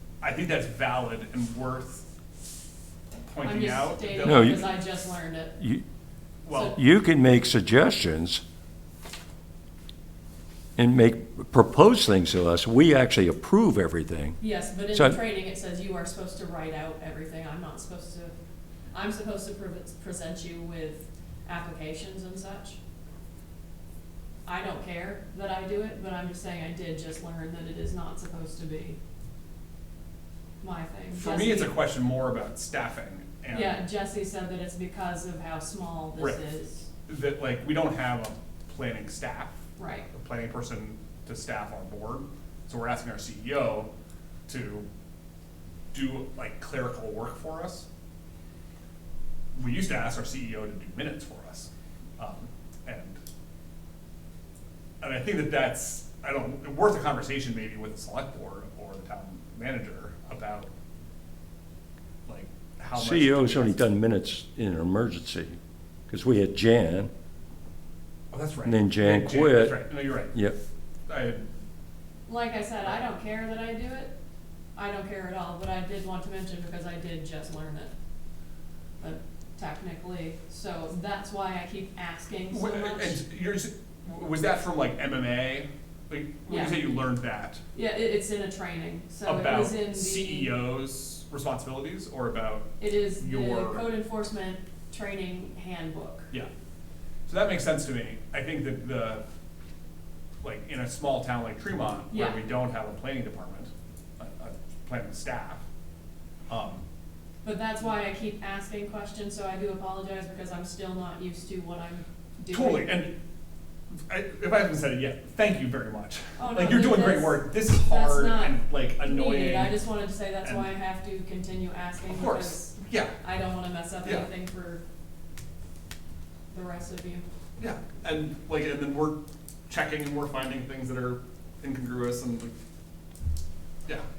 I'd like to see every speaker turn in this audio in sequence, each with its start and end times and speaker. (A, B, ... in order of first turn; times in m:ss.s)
0:00.2-0:02.0 A
0:03.3-0:04.7 A
0:03.4-0:05.5 B
0:04.2-0:04.6 C
0:05.6-0:05.8 C
0:06.4-0:06.8 A
0:06.5-0:06.8 B
0:06.7-0:08.4 C
0:10.8-0:14.4 C
0:14.4-0:18.3 B
0:14.9-0:15.2 C
0:18.9-0:22.8 B
0:24.4-0:29.0 B
0:30.6-0:31.7 B
0:31.2-0:33.8 A
0:33.5-0:36.8 B
0:36.2-0:36.4 A
0:37.1-0:43.9 A
0:39.8-0:40.1 B
0:44.5-0:44.9 A
0:45.9-0:47.8 A
0:49.5-0:53.2 A
0:55.0-1:00.7 A
1:02.2-1:03.8 A
1:02.9-1:05.6 C
1:06.1-1:07.1 C
1:08.3-1:10.3 A
1:08.6-1:10.6 C
1:11.1-1:11.4 A
1:12.3-1:14.1 B
1:14.8-1:17.9 B
1:19.0-1:23.2 B
1:22.5-1:27.6 A
1:26.5-1:26.9 B
1:27.7-1:30.6 B
1:29.2-1:33.9 A
1:32.8-1:36.3 B
1:37.3-1:39.2 A
1:40.4-1:45.6 A
1:42.1-1:42.4 B
1:46.5-1:46.8 A
1:47.4-1:53.0 B
1:52.5-1:53.1 A
1:54.1-1:59.8 A
1:56.4-2:04.8 B
2:00.4-2:00.7 A
2:02.1-2:03.2 A
2:04.0-2:04.3 A
2:06.5-2:07.2 B
2:07.6-2:12.5 A